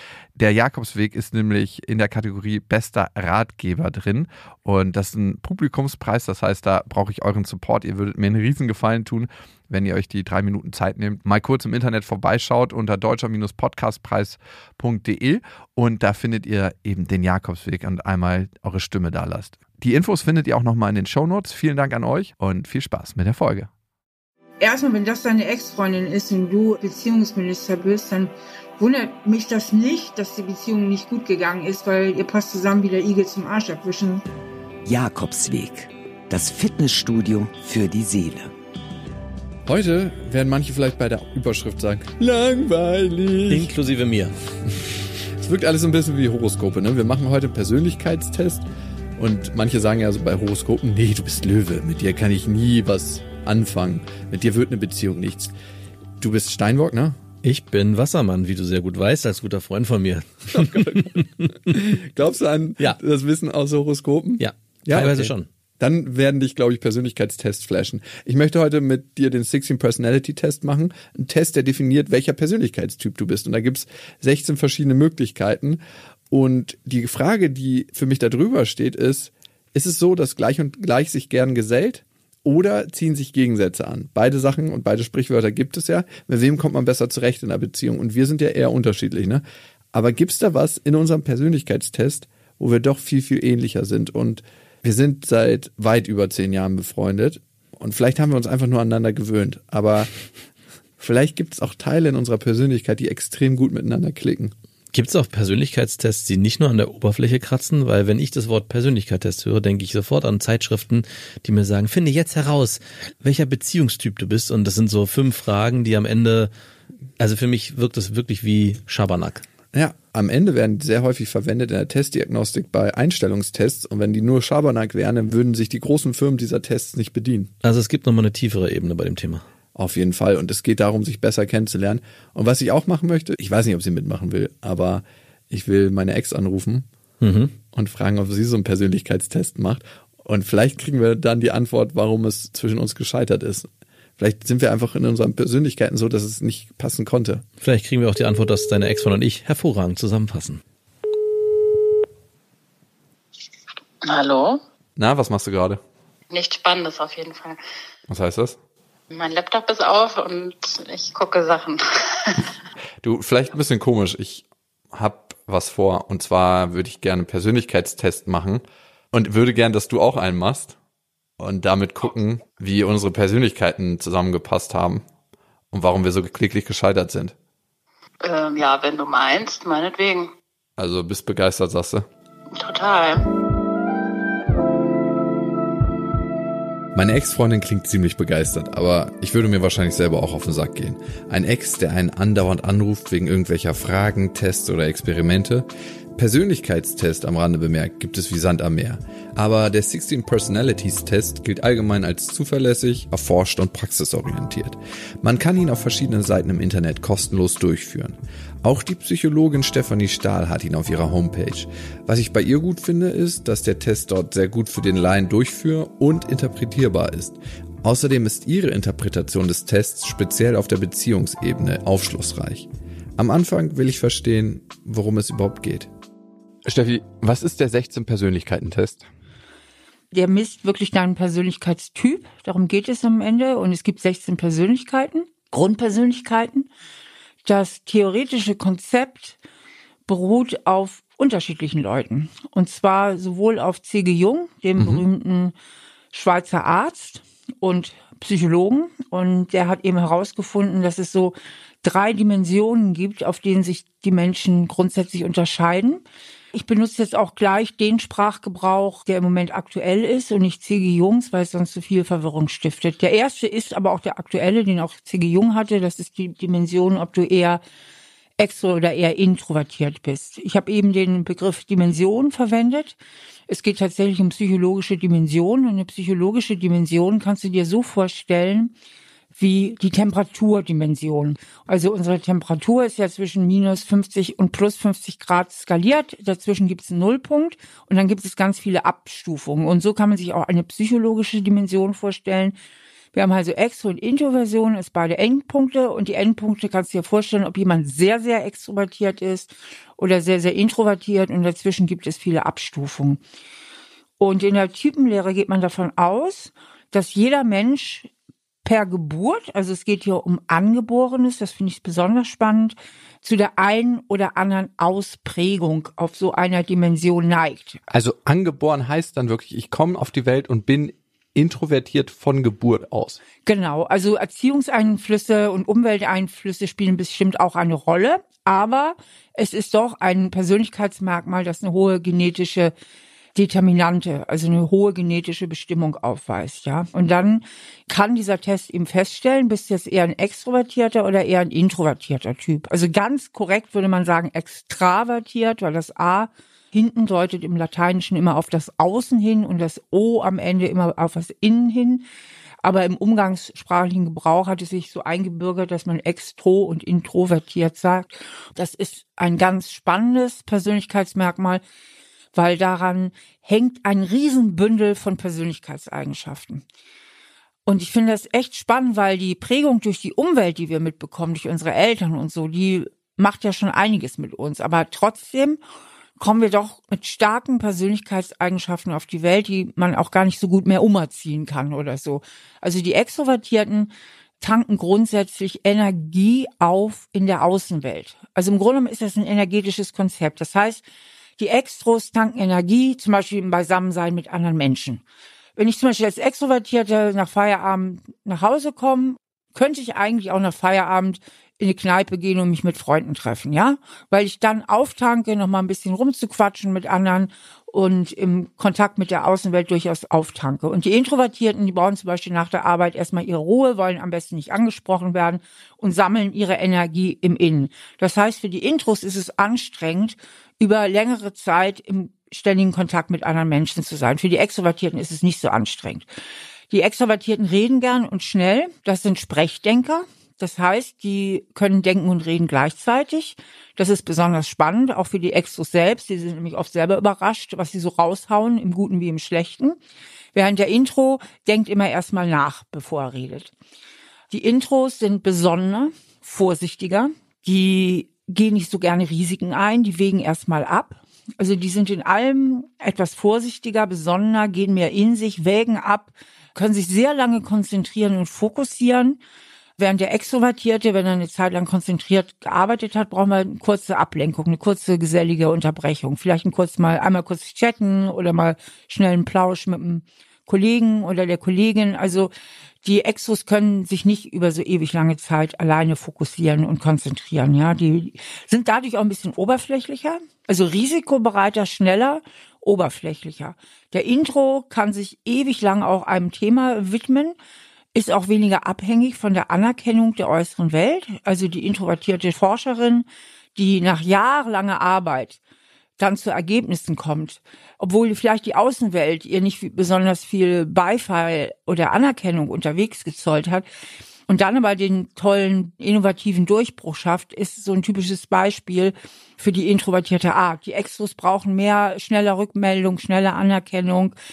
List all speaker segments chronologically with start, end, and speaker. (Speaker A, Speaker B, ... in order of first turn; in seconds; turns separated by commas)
Speaker A: 0.4-23.7, Speaker B: 24.6-34.2, Speaker C: 34.9-38.5, Speaker A: 39.7-43.7, Speaker D: 43.5-44.3, Speaker A: 45.4-48.6, Speaker A: 49.2-55.5, Speaker A: 56.2-57.2, Speaker D: 57.4-61.3, Speaker A: 60.5-75.8, Speaker D: 64.4-65.5, Speaker A: 76.3-100.1, Speaker A: 101.0-104.5, Speaker D: 104.9-116.5, Speaker D: 117.2-119.4, Speaker A: 119.7-127.5, Speaker D: 127.6-129.4, Speaker A: 129.8-136.9, Speaker D: 137.2-137.5, Speaker A: 137.7-147.4, Speaker D: 147.6-150.6, Speaker E: 154.0-154.6, Speaker A: 155.0-155.8, Speaker E: 156.3-157.6, Speaker A: 158.1-158.6, Speaker E: 159.1-162.5, Speaker A: 163.0-170.8, Speaker A: 171.4-175.0, Speaker A: 175.7-177.3, Speaker E: 178.2-180.3, Speaker A: 180.8-182.1, Speaker E: 182.6-183.2, Speaker A: 186.9-222.7, Speaker A: 223.2-225.9, Speaker A: 226.7-229.1, Speaker B: 230.1-236.7, Speaker B: 237.4-239.4, Speaker B: 240.1-245.6, Speaker A: 244.8-245.1, Speaker B: 246.1-267.6, Speaker B: 268.4-278.7, Speaker B: 279.4-292.6, Speaker B: 293.1-303.2, Speaker B: 304.2-308.1, Speaker B: 308.6-317.8, Speaker A: 317.9-323.2, Speaker B: 323.4-332.7, Speaker B: 333.4-352.1, Speaker B: 352.6-361.6, Speaker B: 362.3-366.6, Speaker B: 367.7-375.6, Speaker B: 376.2-390.8, Speaker B: 391.4-395.0, Speaker B: 395.6-426.1, Speaker B: 426.7-439.8, Speaker B: 440.3-443.5, Speaker B: 444.3-459.2, Speaker B: 459.8-472.3, Speaker B: 472.8-487.4, Speaker B: 487.9-495.4, Speaker B: 496.0-503.6, Speaker B: 504.3-514.1